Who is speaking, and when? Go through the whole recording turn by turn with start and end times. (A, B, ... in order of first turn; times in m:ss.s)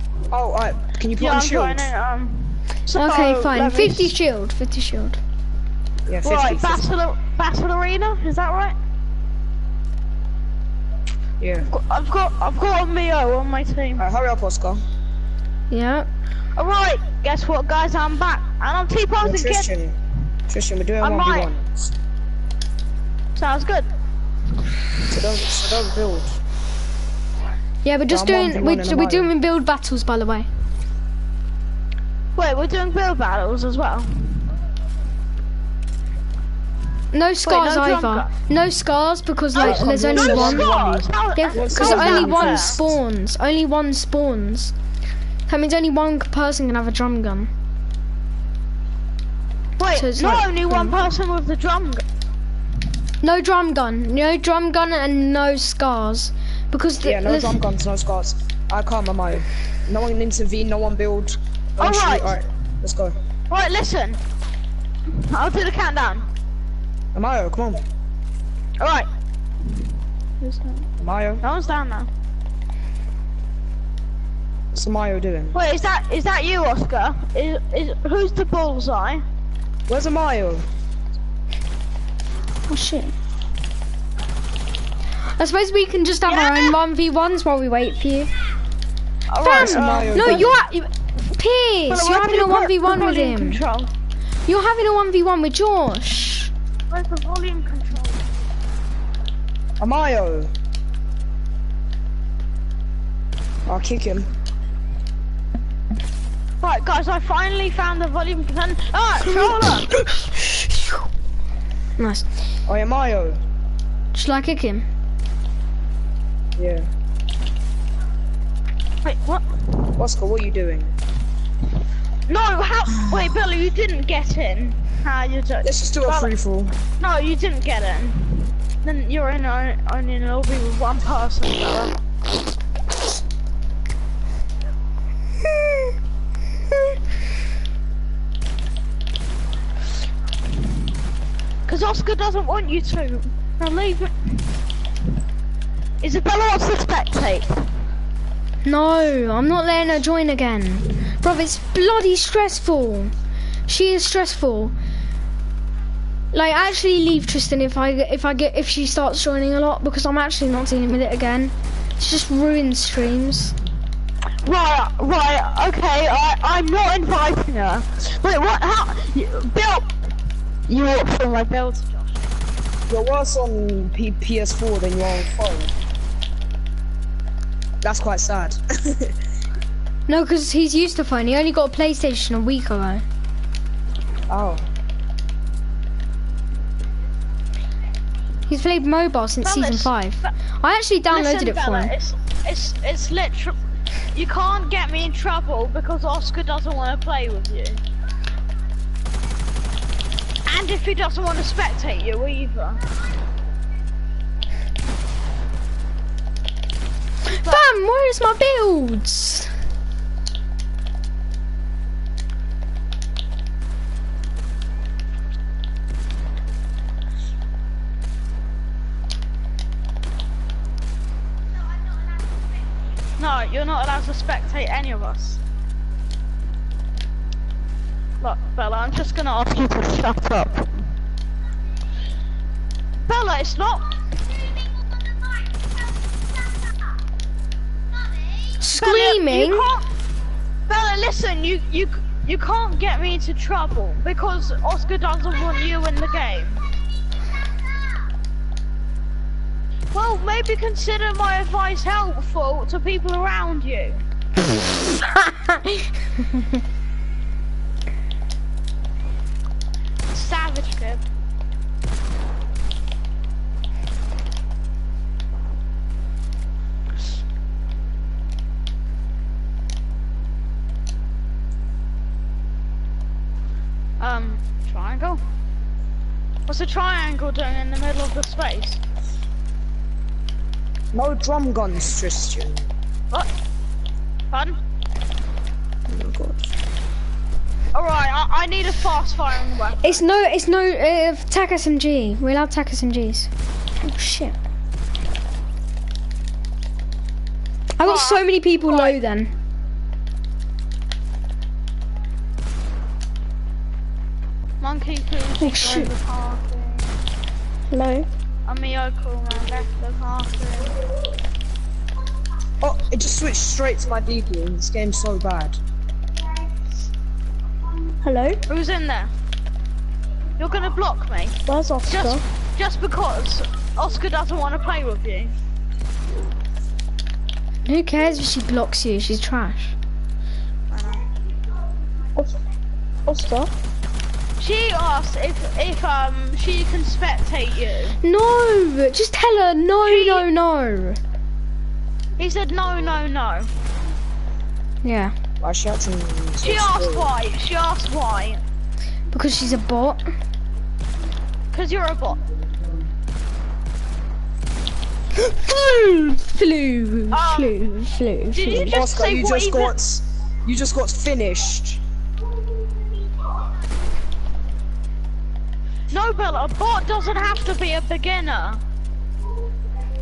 0:00.3-0:01.9 A
0:01.2-0:04.2 B
0:02.9-0:05.2 C
0:06.1-0:06.8 A
0:06.2-0:08.7 B
0:11.4-0:11.7 A
0:11.7-0:14.0 B
0:14.0-0:14.8 A
0:15.7-0:16.1 C
0:16.6-0:19.7 B
0:19.2-0:21.9 A
0:21.0-0:21.5 B
0:23.4-0:23.9 B
0:24.8-0:25.2 B
0:25.1-0:26.4 A
0:27.8-0:30.5 C
0:28.1-0:29.3 A
0:32.3-0:34.3 B
0:37.1-0:40.7 C
0:37.4-0:38.3 B
0:39.5-0:42.8 B
0:39.6-0:42.9 A
0:41.4-0:44.7 C
0:45.5-0:47.5 C
0:49.8-0:52.0 B
0:49.9-0:51.2 C
0:53.2-0:57.6 C
0:57.0-1:03.1 A
1:01.8-1:02.4 B
1:03.5-1:04.2 B
1:05.1-1:06.2 B
1:07.1-1:07.8 A
1:08.8-1:09.1 B
1:10.4-1:10.9 B
1:11.0-1:11.4 A
1:11.4-1:12.1 B
1:14.7-1:15.6 A
1:15.5-1:19.2 B
1:19.9-1:20.7 A
1:22.7-1:23.1 C
1:25.3-1:28.3 C
1:26.3-1:26.8 B
1:29.3-1:30.5 B
1:29.4-1:33.6 C
1:29.5-1:30.6 A
1:31.9-1:33.9 B
1:34.5-1:36.5 C
1:36.9-1:38.3 B
1:39.8-1:40.5 A
1:43.6-1:44.3 A
1:46.6-1:49.9 B
1:49.9-1:51.0 C
1:52.0-1:52.3 C
1:52.6-1:53.4 A
1:54.1-1:54.9 C
1:56.6-1:56.9 A
1:59.0-1:59.8 B
2:00.0-2:00.9 A
2:02.3-2:06.3 B
2:05.6-2:06.8 A
2:07.0-2:12.0 B
2:21.7-2:24.3 B
2:26.0-2:27.5 B
2:28.6-2:33.1 C
2:33.7-2:34.7 C
2:36.3-2:43.6 C
2:44.4-2:49.9 B
2:50.7-2:52.2 B
2:52.9-2:55.7 A
2:57.8-2:59.1 A
3:00.1-3:03.0 C
3:04.3-3:04.7 A
3:08.5-3:11.9 C
3:09.4-3:10.3 B
3:11.1-3:13.6 B
3:14.1-3:17.8 B
3:20.4-3:22.8 B
3:27.3-3:29.5 C
3:43.2-3:45.4 B
3:48.2-3:50.7 B
3:53.0-3:53.9 B
3:58.6-3:59.7 C
3:58.7-3:59.8 B
4:00.7-4:06.6 B
4:09.9-4:14.0 B
4:14.9-4:16.6 C
4:20.1-4:21.1 B
4:34.0-4:35.2 B
4:36.5-4:38.8 B
4:40.9-4:42.7 A
4:44.3-4:44.6 B
4:45.9-4:46.5 A
4:47.7-4:50.0 B
4:49.8-4:54.4 C
4:57.8-4:59.3 C
4:57.8-4:59.0 B
5:04.6-5:07.0 B
5:05.4-5:05.9 C
5:07.7-5:08.1 C
5:08.4-5:10.8 B
5:12.6-5:15.6 A
5:18.0-5:18.4 C
5:18.5-5:19.1 B
5:20.4-5:25.3 B
5:21.5-5:22.2 C
5:27.6-5:29.8 C
5:30.7-5:31.1 B
5:33.1-5:33.5 C
5:34.4-5:38.0 B
5:38.0-5:41.0 C
5:39.8-5:40.2 B
5:42.2-5:43.5 B
5:44.8-5:45.1 C
5:45.4-5:47.1 A
5:46.4-5:48.4 B
5:49.1-5:50.0 C
5:51.5-5:52.2 B
5:55.2-5:58.8 C
5:57.1-5:57.5 B
5:58.3-5:59.7 B
5:58.6-6:01.8 A
6:05.9-6:08.6 B